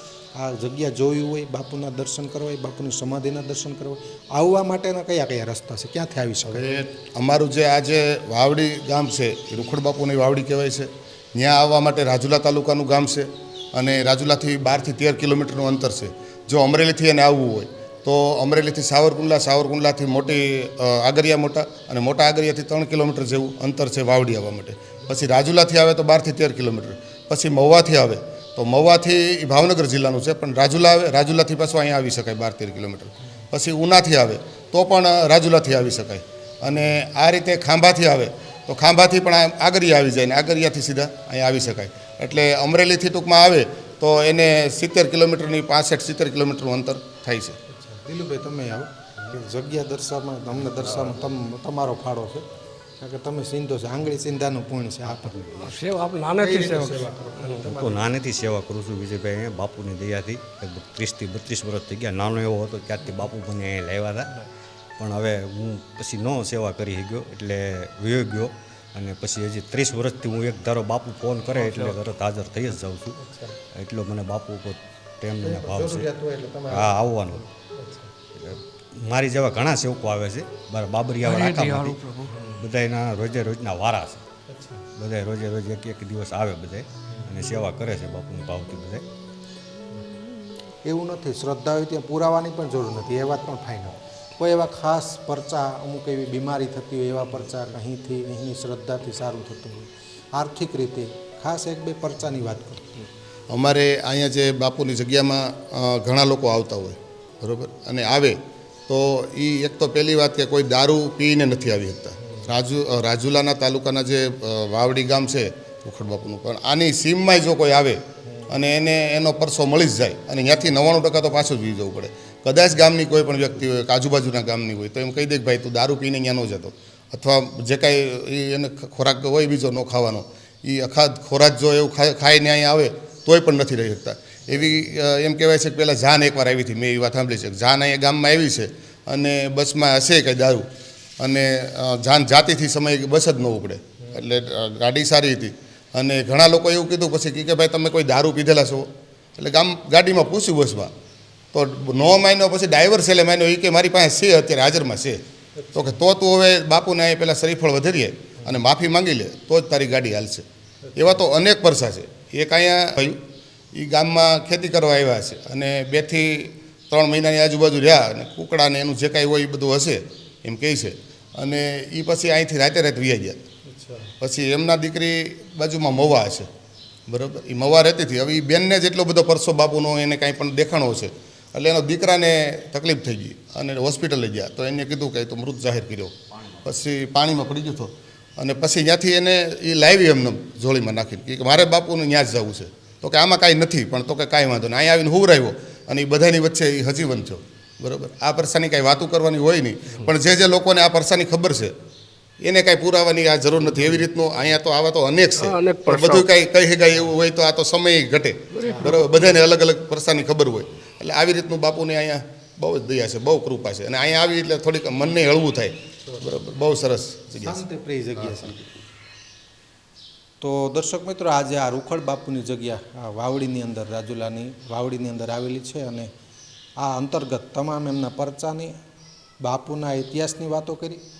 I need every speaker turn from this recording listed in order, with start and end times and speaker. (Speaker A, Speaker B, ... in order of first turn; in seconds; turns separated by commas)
Speaker A: 0.3-6.6, Speaker B: 6.5-47.5, Speaker A: 47.7-52.4, Speaker A: 53.0-55.4, Speaker C: 55.4-55.7, Speaker D: 55.6-57.6, Speaker A: 56.4-58.1, Speaker C: 57.6-64.4, Speaker C: 65.0-73.2, Speaker D: 71.6-71.9, Speaker A: 73.2-73.5, Speaker C: 73.7-76.1, Speaker A: 75.4-77.0, Speaker C: 76.7-77.5, Speaker A: 77.7-78.1, Speaker C: 78.4-82.0, Speaker D: 81.2-82.4, Speaker A: 82.3-82.6, Speaker C: 82.6-84.2, Speaker A: 84.5-84.8, Speaker C: 85.0-89.0, Speaker A: 90.8-103.0, Speaker B: 103.5-108.4, Speaker B: 108.9-118.0, Speaker A: 112.2-112.5, Speaker A: 118.2-118.6, Speaker B: 118.5-140.7, Speaker B: 141.2-150.9, Speaker B: 151.5-155.2, Speaker A: 155.6-156.0, Speaker B: 155.7-163.2, Speaker A: 160.8-161.2, Speaker B: 163.7-173.4, Speaker A: 173.7-174.1, Speaker B: 174.2-176.5, Speaker B: 177.1-201.7, Speaker B: 202.4-217.6, Speaker D: 205.4-206.3, Speaker D: 208.5-209.1, Speaker A: 208.6-209.1, Speaker A: 217.4-218.6, Speaker A: 220.4-226.1, Speaker A: 226.8-228.7, Speaker A: 229.4-231.0